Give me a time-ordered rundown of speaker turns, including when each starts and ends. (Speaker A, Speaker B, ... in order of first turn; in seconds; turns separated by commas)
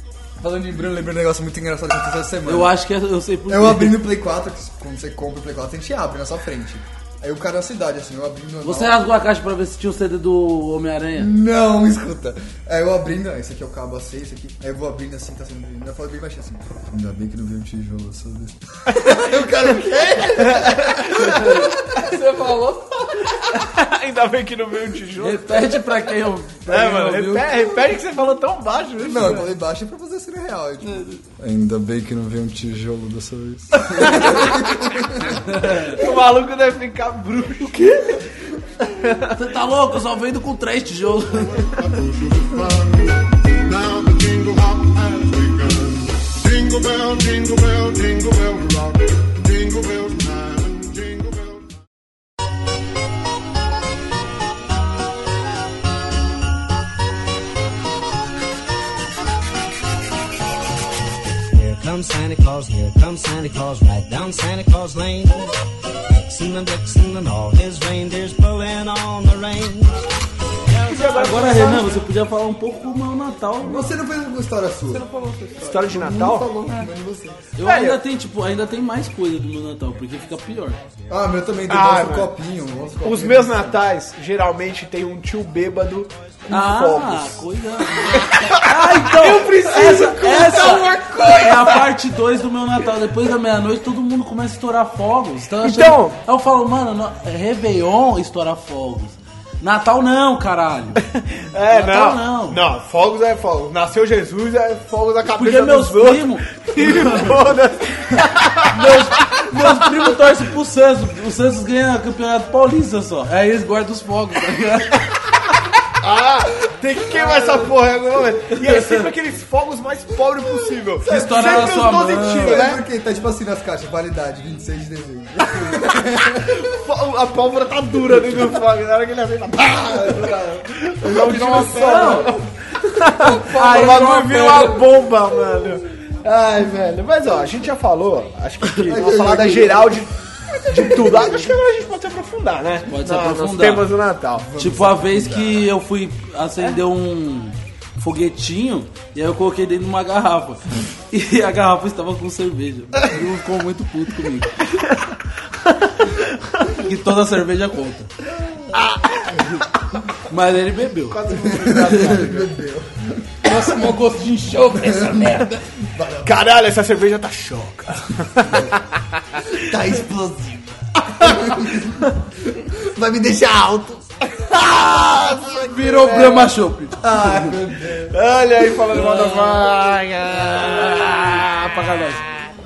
Speaker A: 0.4-2.8, Speaker B: 2.5-4.1, Speaker A: 3.5-9.1, Speaker B: 8.6-11.3, Speaker A: 11.2-21.7, Speaker C: 18.9-19.3, Speaker C: 20.4-21.7, Speaker D: 21.9-23.2, Speaker C: 23.5-25.9, Speaker B: 25.2-27.6, Speaker C: 26.7-29.5, Speaker A: 29.0-35.5, Speaker B: 30.8-31.2, Speaker C: 34.0-34.6, Speaker B: 35.4-36.0, Speaker C: 35.9-38.0, Speaker D: 37.7-38.2, Speaker C: 38.8-39.3, Speaker B: 39.3-41.6, Speaker E: 41.3-51.7, Speaker F: 61.4-65.5, Speaker F: 66.1-70.1, Speaker C: 70.7-72.0, Speaker B: 71.0-73.9, Speaker A: 73.6-75.0, Speaker D: 74.9-76.9, Speaker C: 75.6-76.5, Speaker A: 75.9-77.4, Speaker B: 77.5-80.8, Speaker C: 77.6-78.0, Speaker A: 81.1-83.8, Speaker C: 81.7-82.3, Speaker C: 83.0-87.4, Speaker B: 86.5-101.1, Speaker C: 88.0-88.8, Speaker D: 89.1-91.8, Speaker C: 90.5-90.8, Speaker C: 95.6-96.2, Speaker C: 101.5-109.5, Speaker B: 101.7-102.6, Speaker B: 105.3-107.6, Speaker B: 108.7-115.1, Speaker C: 116.0-122.8, Speaker B: 118.6-119.1, Speaker A: 121.0-126.6, Speaker B: 121.1-122.8, Speaker C: 126.5-140.1, Speaker A: 129.8-130.6, Speaker D: 131.1-132.4, Speaker B: 131.3-132.3, Speaker D: 133.2-134.9, Speaker A: 138.8-140.1, Speaker C: 140.7-144.5, Speaker A: 140.7-141.5, Speaker B: 142.9-143.9, Speaker A: 144.3-145.7, Speaker B: 144.6-154.7, Speaker C: 155.8-156.7, Speaker B: 156.7-158.1, Speaker A: 158.2-159.4, Speaker C: 158.8-159.4, Speaker B: 160.3-161.2, Speaker C: 161.1-162.5, Speaker A: 161.3-163.6, Speaker B: 161.8-162.1, Speaker D: 163.4-165.6, Speaker A: 164.8-166.3, Speaker C: 166.2-168.8, Speaker A: 168.4-168.8, Speaker A: 169.5-174.0, Speaker C: 171.2-171.5, Speaker C: 174.4-176.5, Speaker B: 175.6-177.5, Speaker A: 177.0-178.2, Speaker C: 178.1-181.4, Speaker B: 178.9-179.7, Speaker B: 180.5-182.2